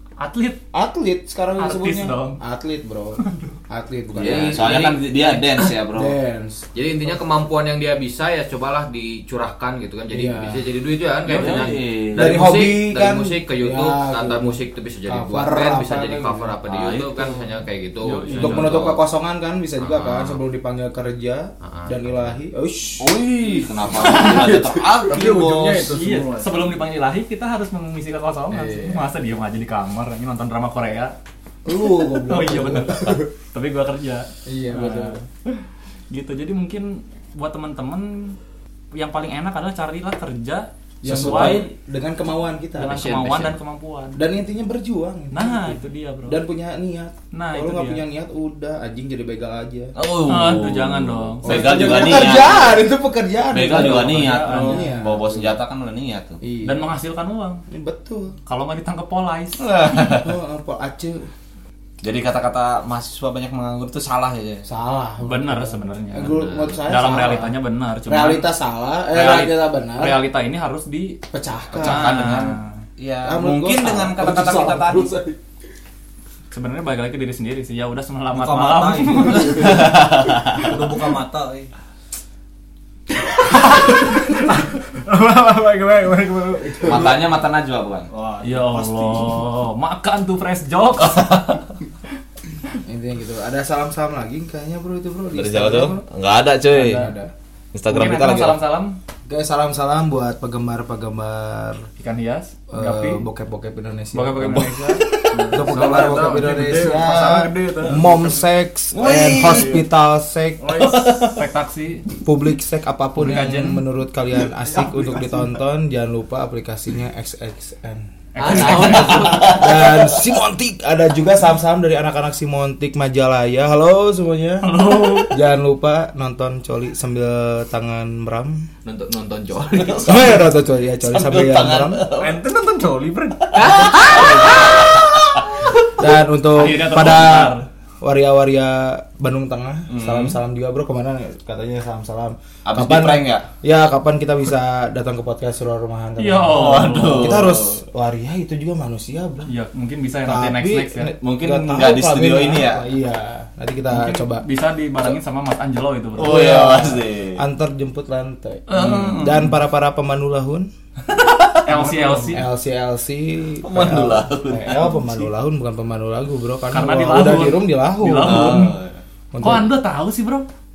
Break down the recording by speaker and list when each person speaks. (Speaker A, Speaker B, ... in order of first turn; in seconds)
Speaker A: 0.2-0.6, 1.6-2.4, 11.3-11.7, 18.0-18.9, 25.9-31.2, 32.2-35.3, 36.1-38.4, 38.9-41.7, 42.8-44.2, 45.3-46.4, 47.3-48.0, 50.3-52.2, 53.5-54.9, 56.6-57.6, 58.5-59.6, 65.2-68.5, 69.1-71.2, 71.8-72.8, 76.5-79.6, 88.4-91.3, 97.9-99.0, 102.0-103.2, 104.1-105.1, 105.8-106.3, 111.3-112.0, 113.2-113.9, 118.3-119.5, 124.6-125.4, 136.5-137.7, 146.2-147.4, 149.5-151.1, 153.9-156.6, 158.7-159.6, 161.6-162.4, 166.7-168.7, 169.4-170.4
Speaker B: 0.7-4.7, 5.7-6.6, 10.1-10.6, 12.1-16.6, 18.3-23.1, 28.5-29.1, 31.6-33.3, 34.5-35.2, 41.0-43.5, 44.1-49.9, 51.5-55.5, 56.4-56.9, 57.7-58.4, 60.0-61.3, 64.7-67.5, 68.1-70.2, 71.3-72.3, 73.2-75.4, 86.7-87.3, 92.8-96.0, 96.7-97.3, 99.3-101.9, 102.7-110.7, 112.2-118.1, 119.5-128.7, 130.1-132.0, 136.0-149.5, 150.3-154.4, 156.2-160.7, 162.3-168.7, 169.3-169.7
Speaker C: 4.1-5.0, 6.7-19.0, 19.8-20.4, 21.6-22.4, 66.2-66.8, 118.4-119.7, 128.8-130.3, 133.5-134.9
Speaker D: 4.1-6.1, 11.3-12.4, 16.7-17.5, 23.0-25.9, 41.1-41.6, 50.0-52.9, 53.5-56.4, 59.6-60.4, 62.0-64.7, 71.7-75.1, 79.3-80.8, 86.8-88.1, 91.0-91.7, 95.3-97.1, 97.7-98.6, 108.9-109.8, 110.7-111.4, 118.5-120.3, 129.7-132.4, 133.5-135.7, 139.9-140.4, 142.6-143.5, 146.5-147.8, 151.2-152.9, 156.2-157.4, 158.7-159.3, 161.1-161.6, 163.6-165.3, 168.2-169.0
Speaker E: 23.9-26.5, 83.5-87.0, 105.3-108.4, 109.4-109.9, 110.6-111.3, 132.1-133.6, 161.7-162.4
Speaker F: 78.3-79.8, 80.6-81.7, 88.1-89.4, 114.7-115.5